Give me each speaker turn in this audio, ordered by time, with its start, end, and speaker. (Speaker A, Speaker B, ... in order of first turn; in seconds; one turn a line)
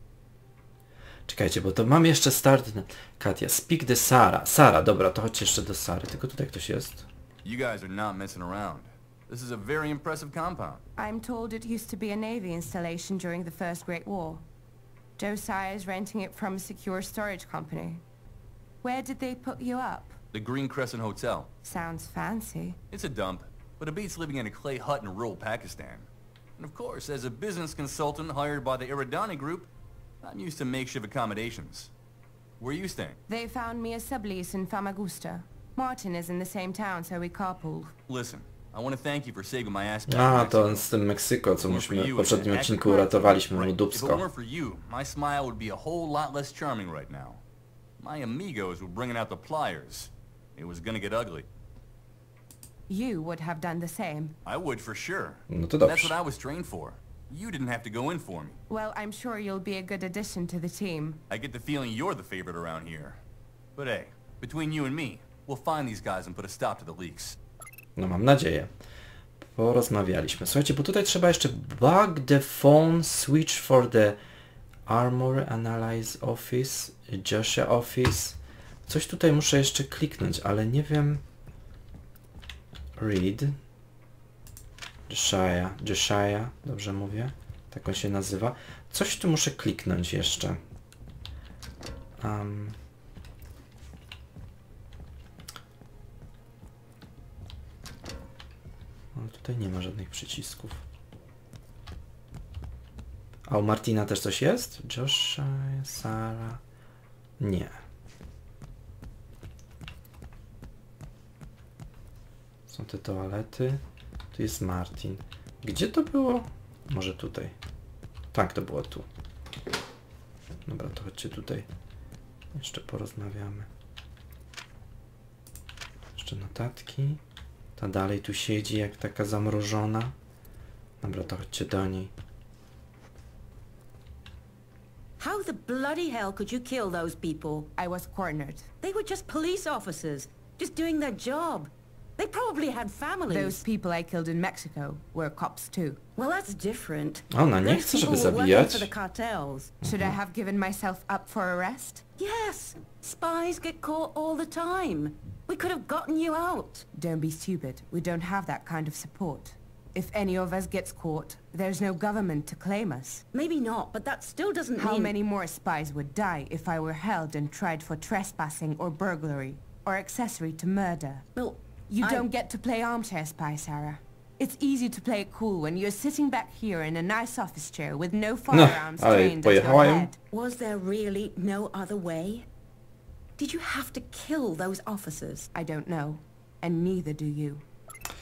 Speaker A: 1.3-7.1
Speaker B: 7.4-10.8
Speaker C: 11.0-14.4
Speaker C: 15.2-18.0
Speaker C: 18.8-20.2
Speaker B: 20.3-21.5
Speaker C: 21.6-22.8
Speaker B: 22.9-29.7
Speaker B: 30.2-31.9
Speaker B: 32.6-33.2
Speaker C: 33.3-37.9
Speaker B: 38.1-40.9
Speaker A: 40.1-44.2
Speaker B: 41.6-47.4
Speaker B: 48.0-51.5
Speaker C: 52.9-54.4
Speaker B: 54.5-58.6
Speaker A: 55.5-56.2
Speaker C: 58.7-61.2
Speaker B: 61.3-63.2
Speaker B: 63.8-67.4
Speaker A: 68.0-68.7
Speaker A: 69.5-74.2
Speaker A: 74.9-81.2
Speaker A: 83.0-83.5
Speaker A: 85.1-90.6
Speaker A: 92.2-92.8
Speaker A: 99.2-100.8
Speaker A: 103.5-106.6
Speaker A: 107.4-107.8
Speaker A: 112.7-113.8
Speaker A: 114.3-117.5
Speaker A: 118.3-119.1
Speaker A: 120.7-121.7
Speaker A: 122.5-123.7
Speaker A: 126.2-127.2
Speaker A: 127.8-130.1
Speaker A: 131.0-132.1
Speaker D: 135.2-137.7
Speaker C: 137.8-138.7
Speaker D: 138.8-143.6
Speaker C: 143.3-146.0
Speaker D: 146.2-149.8
Speaker A: 147.3-148.9
Speaker A: 149.8-150.2
Speaker C: 149.8-152.1
Speaker D: 152.2-156.9
Speaker C: 156.9-163.2
Speaker D: 163.3-165.2
Speaker C: 164.8-171.2
Speaker D: 171.3-172.3
Speaker C: 171.9-180.2
Speaker A: 178.5-180.1
Speaker D: 180.3-182.5
Speaker D: 183.4-185.5
Speaker C: 185.5-187.6